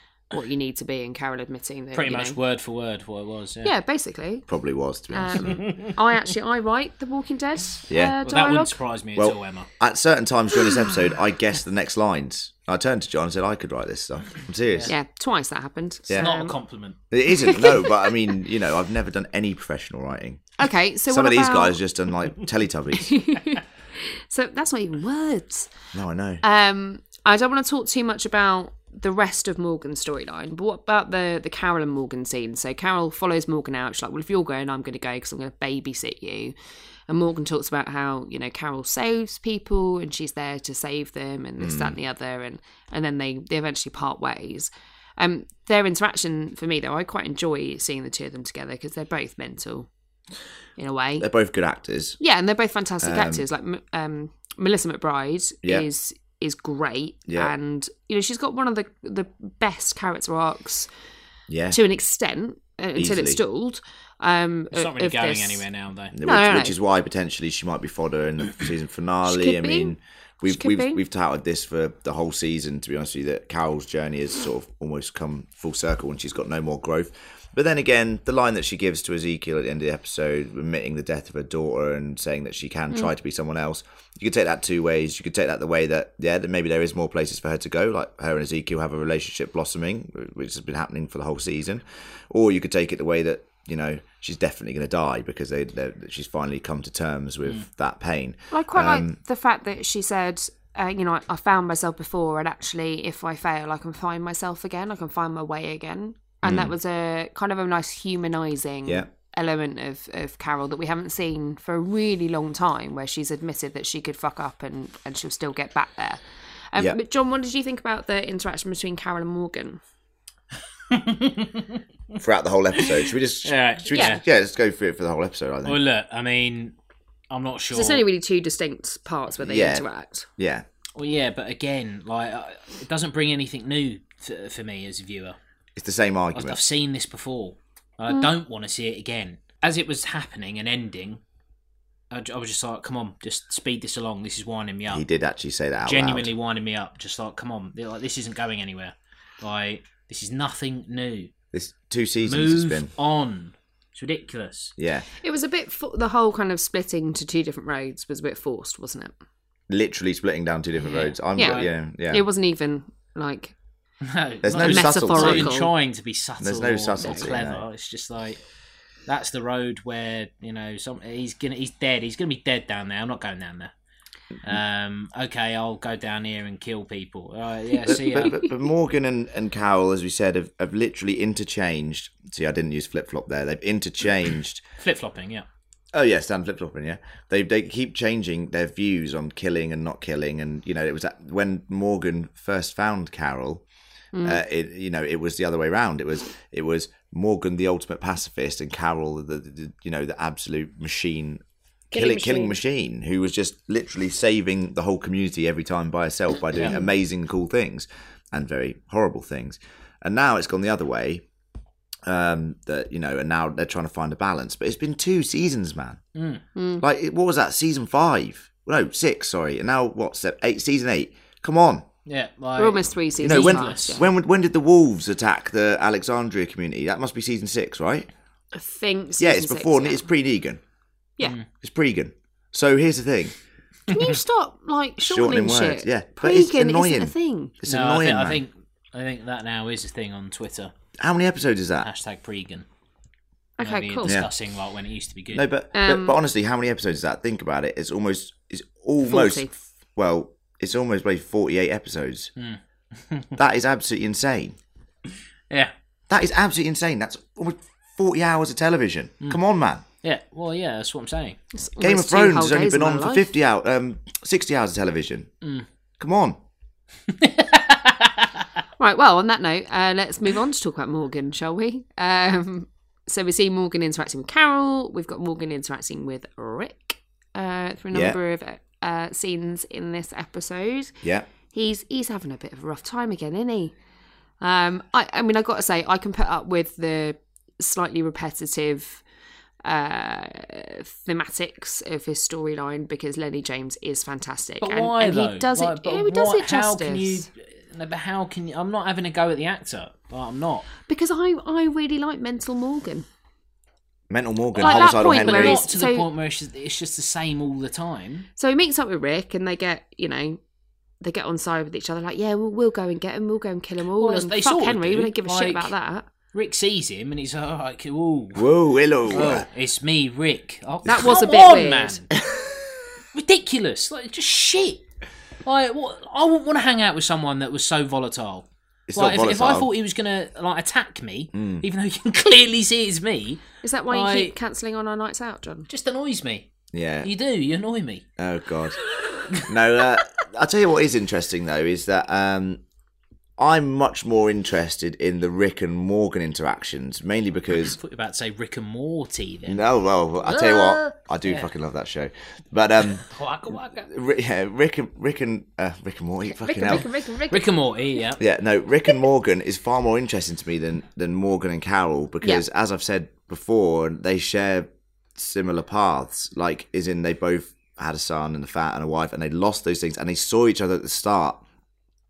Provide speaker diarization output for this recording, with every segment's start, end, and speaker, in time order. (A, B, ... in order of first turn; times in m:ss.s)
0:00.3-0:02.4 A
0:01.9-0:03.7 B
0:03.6-0:04.4 A
0:04.5-0:05.4 C
0:05.1-0:08.8 A
0:05.4-0:05.9 B
0:07.9-0:08.2 C
0:08.2-0:09.7 B
0:09.2-0:14.9 C
0:14.8-0:16.6 A
0:16.2-0:17.0 B
0:17.1-0:20.5 C
0:17.4-0:17.9 A
0:20.6-0:21.8 A
0:21.1-0:23.2 C
0:23.0-0:25.7 A
0:25.9-0:26.4 C
0:26.4-0:36.5 A
0:37.1-0:49.9 A
0:41.6-0:42.0 C
0:50.8-0:51.2 A
0:51.2-0:52.2 C
0:52.2-1:00.9 A
0:53.0-0:53.4 C
0:57.3-0:57.5 C
1:01.5-1:01.8 C
1:01.7-1:05.6 A
1:03.0-1:03.4 C
1:04.7-1:06.1 B
1:06.1-1:39.2 C
1:06.2-1:06.7 A
1:09.2-1:10.0 A
1:10.5-1:11.0 A
1:38.5-1:56.2 A
1:46.4-1:46.7 C
1:56.7-1:59.8 A
2:00.9-2:01.8 B
2:02.2-2:05.8 C
2:03.4-2:04.2 B
2:03.9-2:04.2 A
2:05.6-2:06.7 B
2:07.3-2:08.0 B
2:07.7-2:10.3 A
2:09.4-2:09.8 C
2:10.4-2:10.6 C
2:11.0-2:15.4 B
2:15.8-2:16.6 C
2:16.3-2:21.2 B
2:22.1-2:25.0 B
2:24.9-2:26.3 C
2:25.8-2:31.3 B
2:31.5-2:32.9 C
2:32.2-2:34.7 B
2:34.8-2:35.0 C
2:35.2-2:39.1 A
2:39.7-2:42.2 C
2:40.8-2:41.7 B
2:41.4-2:43.5 A
2:44.0-2:48.4 B
2:44.4-2:45.5 C
2:44.6-2:45.7 A
2:46.4-2:47.6 C
2:47.0-2:47.2 A
2:49.1-2:53.7 B
2:54.4-2:58.4 B
2:57.8-3:04.6 C
3:04.8-3:05.4 B
3:05.9-3:13.6 C
3:14.1-3:14.4 A
3:14.2-3:21.4 C
3:21.9-3:22.6 A
3:21.9-3:31.2 C
3:32.0-3:36.0 C
3:36.1-3:36.4 B
3:36.5-3:36.8 A
3:36.8-3:41.8 C
3:42.0-3:44.0 B
3:42.6-3:44.0 A
3:43.2-3:48.1 C
3:48.5-3:50.1 A
3:49.2-3:50.6 C
3:51.2-3:51.5 B
3:51.6-3:53.3 C
3:53.9-3:57.5 A
3:55.0-3:58.4 C
3:57.6-4:00.7 B
4:01.0-4:01.9 C
4:01.8-4:02.6 B
4:03.6-4:04.2 A
4:03.6-4:05.4 B
4:04.0-4:04.3 C
4:05.3-4:12.3 C
4:05.7-4:06.2 A
4:09.0-4:09.5 A
4:12.4-4:13.3 B
4:13.4-4:14.6 C
4:16.1-4:19.8 C
4:20.0-4:21.4 B
4:21.5-4:23.3 A
4:21.8-4:25.3 C
4:26.0-4:26.4 C
4:27.1-4:28.4 B
4:28.8-4:41.0 A
4:37.9-4:38.2 C
4:41.0-4:41.3 C
4:41.5-4:43.7 A
4:44.4-4:49.0 A
4:49.6-4:57.3 A
4:54.6-5:00.7 B
5:00.8-5:03.0 A
5:04.1-5:05.6 C
5:04.6-5:08.3 B
5:04.6-5:06.1 A
5:08.4-5:10.4 A
5:11.0-5:16.1 A
5:14.0-5:15.7 B
5:16.3-5:18.5 B
5:18.3-5:19.5 C
5:19.1-5:22.1 B
5:20.8-5:22.0 A
5:23.1-5:24.8 B
5:25.4-5:34.3 B
5:28.9-5:29.7 C
5:31.3-5:31.6 C
5:33.6-5:35.7 A
5:35.7-5:36.5 B
5:36.7-5:37.1 C
5:37.0-5:38.0 B
5:38.2-5:38.8 C
5:39.4-5:42.6 C
5:43.4-5:47.8 C
5:47.6-5:49.6 B
5:49.5-5:53.0 C
5:50.3-5:51.5 B
5:53.0-5:53.9 B
5:53.9-5:56.8 C
5:56.2-5:57.5 A
5:56.7-5:58.2 B
5:58.2-6:11.4 C